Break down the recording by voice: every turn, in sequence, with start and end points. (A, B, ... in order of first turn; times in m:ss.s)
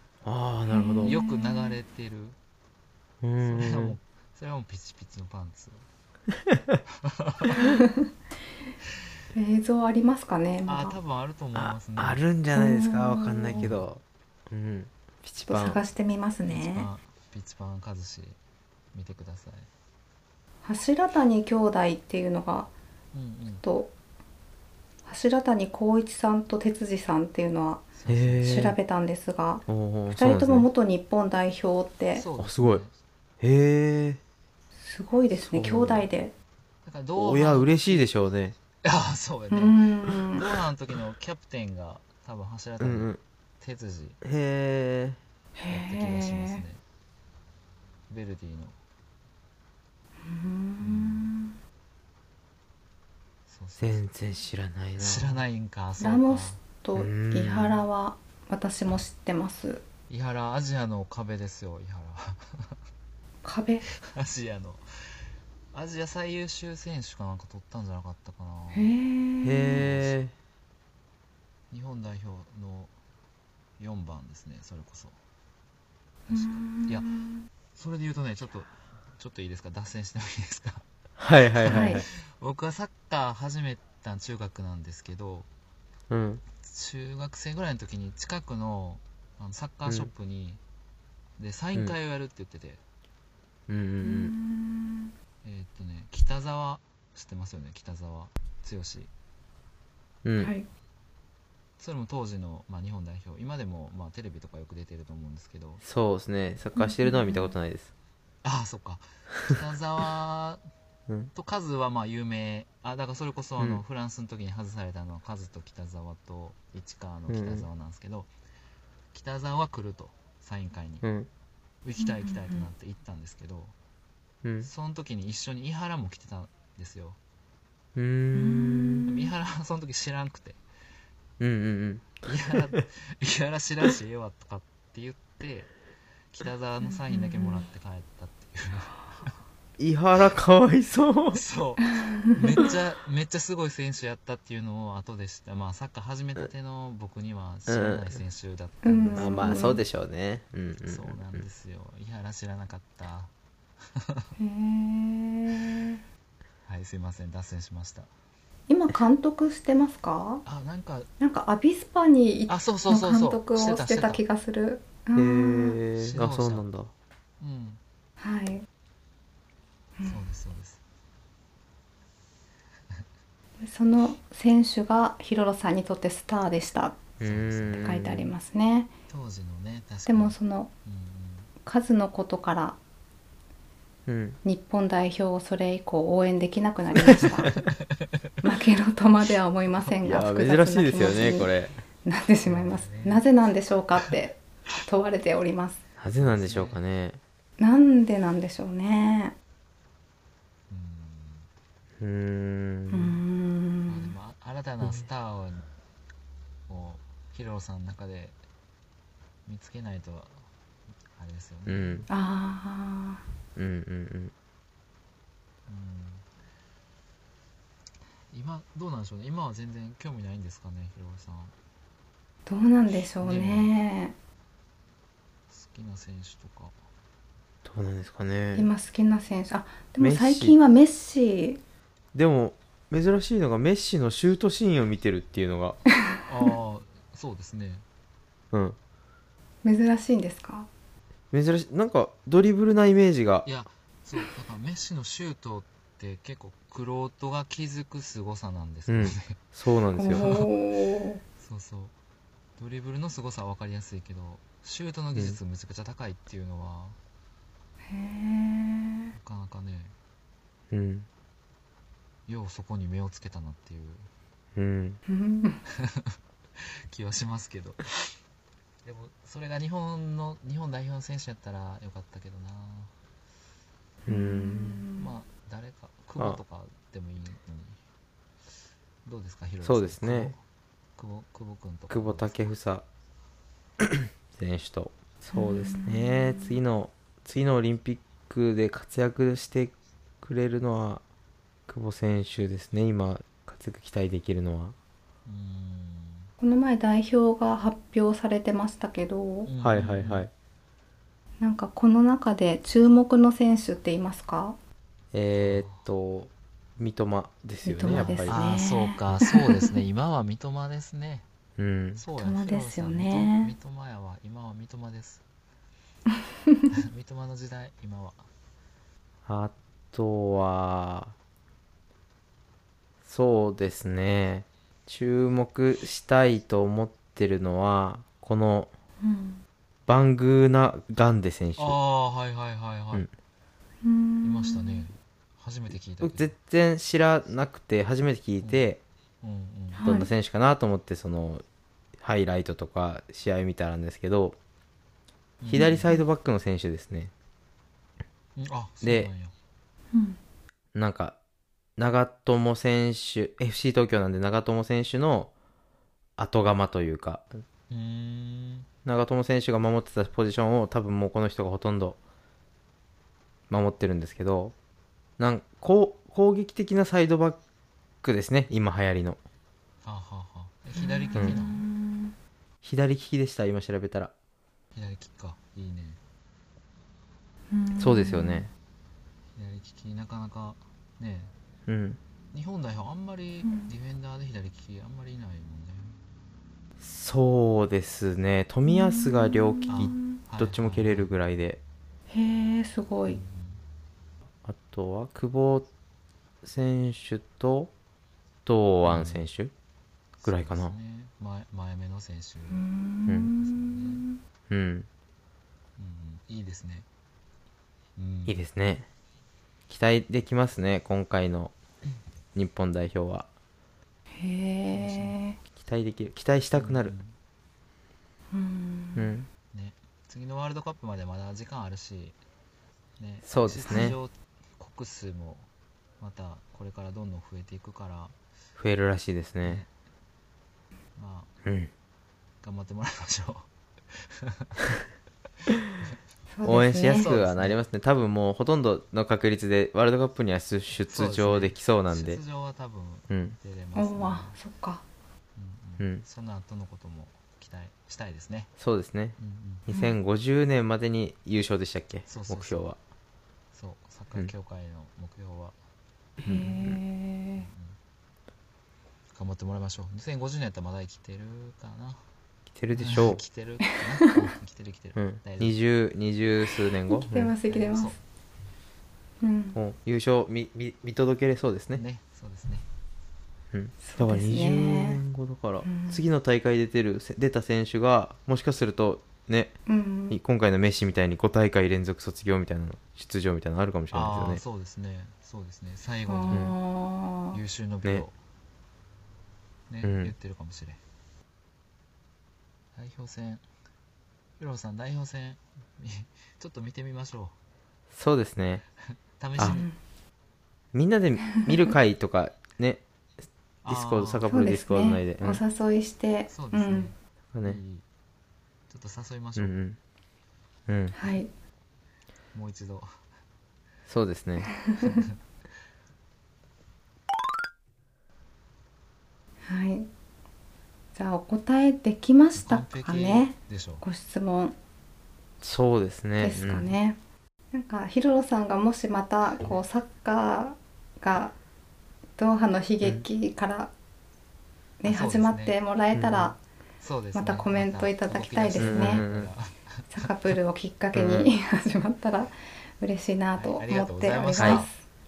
0:00.2-0:01.2 A
0:00.7-0:01.8 B
0:01.0-0:02.4 C
0:03.2-0:04.0 A
0:03.4-0:05.8 C
0:06.5-0:06.8 A
0:07.0-0:07.8 C
0:07.6-0:08.1 B
0:09.4-0:11.0 B
0:10.7-0:12.2 C
0:11.6-0:15.8 A
0:12.6-0:13.7 B
0:13.6-0:13.8 C
0:15.3-0:16.9 B
0:16.4-0:18.4 C
0:18.9-0:19.7 C
0:20.6-0:22.7 B
0:23.1-0:23.6 C
0:23.6-0:23.9 B
0:25.1-0:27.8 B
0:28.0-0:28.6 C
0:28.1-0:28.8 A
0:28.4-0:32.2 B
0:29.7-0:30.7 A
0:32.2-0:32.9 C
0:32.4-0:32.8 A
0:33.4-0:34.2 A
0:34.8-0:36.3 B
0:35.4-0:36.1 A
0:36.8-0:38.1 C
0:37.2-0:38.6 A
0:38.8-0:44.2 C
0:39.5-0:40.4 B
0:42.8-0:43.2 A
0:44.2-0:45.2 A
0:45.6-0:46.6 B
0:45.7-0:46.8 C
0:48.1-0:48.8 C
0:50.3-0:51.6 B
0:50.8-0:51.3 C
0:53.5-0:54.0 C
0:53.8-0:55.4 A
0:55.0-0:56.6 C
0:56.0-0:59.8 B
0:57.0-0:57.8 A
1:00.1-1:02.8 C
1:03.4-1:03.8 B
1:03.9-1:04.8 C
1:05.7-1:08.9 C
1:08.7-1:09.8 B
1:09.4-1:10.3 A
1:09.8-1:10.2 C
1:11.7-1:12.9 C
1:13.8-1:15.2 C
1:16.3-1:17.5 B
1:16.3-1:17.2 C
1:17.7-1:20.8 C
1:21.2-1:22.1 A
1:21.6-1:25.5 C
1:21.6-1:22.0 B
1:26.1-1:26.4 A
1:26.6-1:30.6 C
1:31.4-1:32.8 C
1:33.7-1:34.3 A
1:34.0-1:35.1 B
1:35.4-1:39.1 C
1:40.2-1:40.5 A
1:40.4-1:40.7 B
1:41.8-1:45.8 C
1:45.8-1:47.9 A
1:46.8-1:47.5 B
1:48.4-1:50.6 C
1:51.3-1:58.3 C
1:57.3-1:57.7 A
1:59.1-2:01.0 C
2:01.0-2:01.3 A
2:01.8-2:03.8 C
2:02.0-2:02.7 B
2:04.4-2:04.7 A
2:04.6-2:07.2 C
2:08.0-2:09.1 A
2:08.3-2:09.3 B
2:09.1-2:10.6 C
2:11.4-2:12.2 A
2:12.2-2:15.7 C
2:16.3-2:19.3 C
2:16.8-2:17.7 B
2:19.8-2:21.4 A
2:21.3-2:29.8 C
2:21.9-2:22.7 B
2:27.7-2:28.2 A
2:28.8-2:29.8 B
2:29.2-2:31.4 A
2:30.8-2:33.3 C
2:33.9-2:34.3 C
2:34.4-2:36.0 B
2:36.7-2:38.1 C
2:38.7-2:40.4 B
2:40.4-2:41.1 C
2:41.2-2:45.8 B
2:42.5-2:44.2 C
2:45.2-2:46.9 A
2:46.0-2:46.6 C
2:47.4-2:47.8 C
2:48.2-2:48.6 B
2:50.0-2:50.8 C
2:53.6-2:57.0 B
2:57.2-2:58.3 A
2:57.2-2:58.0 C
2:57.8-2:58.9 B
2:59.1-3:01.5 C
3:00.1-3:00.7 B
3:01.6-3:02.8 B
3:04.1-3:04.4 A
3:04.4-3:07.5 B
3:07.5-3:08.2 C
3:08.4-3:11.5 B
3:10.0-3:11.8 A
3:12.0-3:15.8 B
3:12.4-3:13.3 C
3:16.0-3:17.2 A
3:16.2-3:16.8 C
3:17.6-3:19.4 B
3:20.7-3:21.5 C
3:22.0-3:23.2 A
3:22.9-3:24.1 B
3:23.9-3:25.6 C
3:26.7-3:28.4 C
3:29.5-3:30.5 C
3:31.1-3:32.1 C
3:31.7-3:32.1 A
3:32.1-3:33.2 B
3:33.6-3:34.3 A
3:35.7-3:36.3 C
3:38.3-3:41.5 C
3:42.5-3:44.2 B
3:43.2-3:43.7 C
3:45.5-3:46.8 C
3:47.6-3:48.7 A
3:48.6-3:51.6 B
3:50.0-3:50.6 A
3:52.1-3:55.8 A
3:56.3-3:57.8 C
3:58.5-3:58.8 A
3:59.6-4:00.7 B
4:01.3-4:03.5 A
4:03.4-4:09.4 C
4:08.9-4:10.4 A
4:10.0-4:11.2 B
4:10.1-4:10.5 C
4:11.4-4:12.0 C
4:12.6-4:17.0 C
4:17.9-4:19.1 B
4:19.2-4:20.0 C
4:20.7-4:21.1 A
4:22.3-4:24.1 C
4:24.6-4:25.0 A
4:25.1-4:25.6 B
4:25.7-4:27.9 C
4:28.8-4:32.9 C
4:34.1-4:34.8 A
4:34.1-4:35.1 B
4:35.0-4:37.8 C
4:39.0-4:40.4 C
4:39.6-4:40.4 A
4:41.0-4:42.4 C
4:41.9-4:42.9 A
4:43.8-4:51.0 A
4:45.3-4:46.6 B
4:51.7-4:54.8 A
4:55.3-4:56.3 C
4:56.4-4:59.5 B
4:59.4-5:00.3 C
4:59.6-5:00.3 A
5:01.4-5:04.6 B
5:05.1-5:08.4 A
5:05.4-5:05.9 C
5:07.6-5:09.7 B
5:07.9-5:11.3 C
5:11.6-5:12.0 A
5:12.0-5:15.2 C
5:12.1-5:13.5 B
5:16.7-5:18.3 C
5:19.3-5:21.1 A
5:23.0-5:28.7 A
5:29.0-5:29.4 B
5:29.9-5:31.8 A
5:31.6-5:33.1 C
5:33.8-5:34.9 B
5:34.2-5:36.3 C
5:36.0-5:38.8 A
5:39.2-5:39.9 C
5:39.8-5:40.1 B
5:39.8-5:41.4 A
5:42.0-5:44.4 A
5:45.4-5:46.0 C
5:45.5-5:47.1 A
5:45.5-5:46.0 B
5:48.4-5:49.3 C
5:48.8-5:49.1 A
5:49.9-5:50.2 B
5:50.8-5:51.2 A
5:51.8-5:55.3 A
5:56.2-5:57.3 A
5:57.7-5:58.7 C
5:58.8-6:02.0 A
6:03.5-6:04.6 A
6:05.2-6:07.4 A
6:08.0-6:09.2 A
6:09.8-6:11.6 C
6:10.8-6:12.2 B
6:12.6-6:14.1 A
6:14.8-6:16.0 C
6:17.5-6:18.5 B
6:17.8-6:18.5 A
6:19.4-6:21.3 C
6:21.7-6:22.0 A
6:22.3-6:26.0 C
6:23.4-6:23.7 B
6:26.8-6:31.6 A
6:28.7-6:30.2 B
6:29.7-6:31.1 C
6:32.1-6:33.2 B
6:33.1-6:33.6 C
6:34.4-6:35.7 A
6:36.4-6:37.7 A
6:38.4-6:39.5 A
6:38.8-6:39.3 C
6:40.2-6:42.6 C
6:40.2-6:40.7 A
6:42.5-6:44.2 B
6:43.3-6:44.0 C
6:44.5-6:44.9 A
6:45.8-6:46.9 C
6:48.0-6:48.4 C
6:48.3-6:48.9 A
6:49.7-6:51.5 A
6:52.4-6:53.3 A
6:54.2-6:55.4 B
6:54.7-6:55.2 C
6:55.6-6:56.9 A
6:56.6-6:57.2 C
6:58.3-6:59.2 B
6:59.0-6:59.3 A
6:59.5-7:02.2 C
7:03.0-7:05.5 C
7:03.2-7:04.0 A
7:06.0-7:08.2 C
7:08.6-7:09.6 A
7:09.4-7:09.7 C
7:11.0-7:11.3 C
7:11.4-7:11.7 A
7:12.4-7:13.5 C
7:14.0-7:14.7 C
7:16.4-7:17.1 B
7:16.4-7:22.2 A
7:16.8-7:17.6 C
7:20.9-7:24.4 C
7:23.1-7:23.4 A
7:23.8-7:24.8 B
7:25.4-7:28.5 C
7:28.6-7:32.8 A
7:29.2-7:29.6 C
7:29.7-7:30.0 B
7:32.1-7:32.7 C
7:33.5-7:35.6 C
7:36.2-7:37.4 B
7:36.2-7:36.8 A
7:37.4-7:37.8 C
7:39.1-7:42.0 C
7:42.5-7:43.2 A
7:42.7-7:45.6 C
7:45.0-7:47.3 A
7:46.9-7:47.9 B
7:47.5-7:48.0 C
7:49.2-7:49.6 B
7:49.6-7:51.8 A
7:51.7-7:52.7 C
7:53.5-7:59.6 A
7:53.8-7:55.0 B
7:55.7-7:56.0 B
7:59.7-8:00.2 B
8:00.1-8:04.4 A
8:03.9-8:06.6 C
8:06.1-8:07.4 B
8:07.3-8:08.2 C
8:09.7-8:10.8 C
8:09.8-8:10.1 A
8:12.8-8:13.4 C
8:14.4-8:17.4 C
8:17.9-8:18.6 A
8:19.2-8:19.7 C
8:19.4-8:19.7 B
8:20.7-8:22.8 A
8:23.6-8:24.3 C
8:23.7-8:25.4 A
8:24.3-8:26.9 B
8:26.3-8:27.8 C
8:27.3-8:27.6 A
8:28.7-8:29.6 C
8:29.4-8:29.8 A
8:30.7-8:31.0 A
8:31.0-8:31.3 B
8:32.3-8:32.9 C
8:33.9-8:34.5 A
8:34.8-8:35.2 C
8:39.5-8:39.9 B
8:41.0-8:44.6 B
8:42.4-8:43.8 C
8:45.4-8:46.8 A
8:46.2-8:47.0 B
8:47.5-8:51.3 B
8:52.2-8:53.7 B
8:54.8-8:56.4 B
8:54.8-8:55.6 C
8:55.9-8:56.3 A
8:56.8-9:00.3 C
8:57.2-8:59.0 B
8:58.6-8:59.3 A
8:59.9-9:04.7 B
9:00.9-9:01.3 A
9:03.3-9:04.7 C
9:04.4-9:04.6 A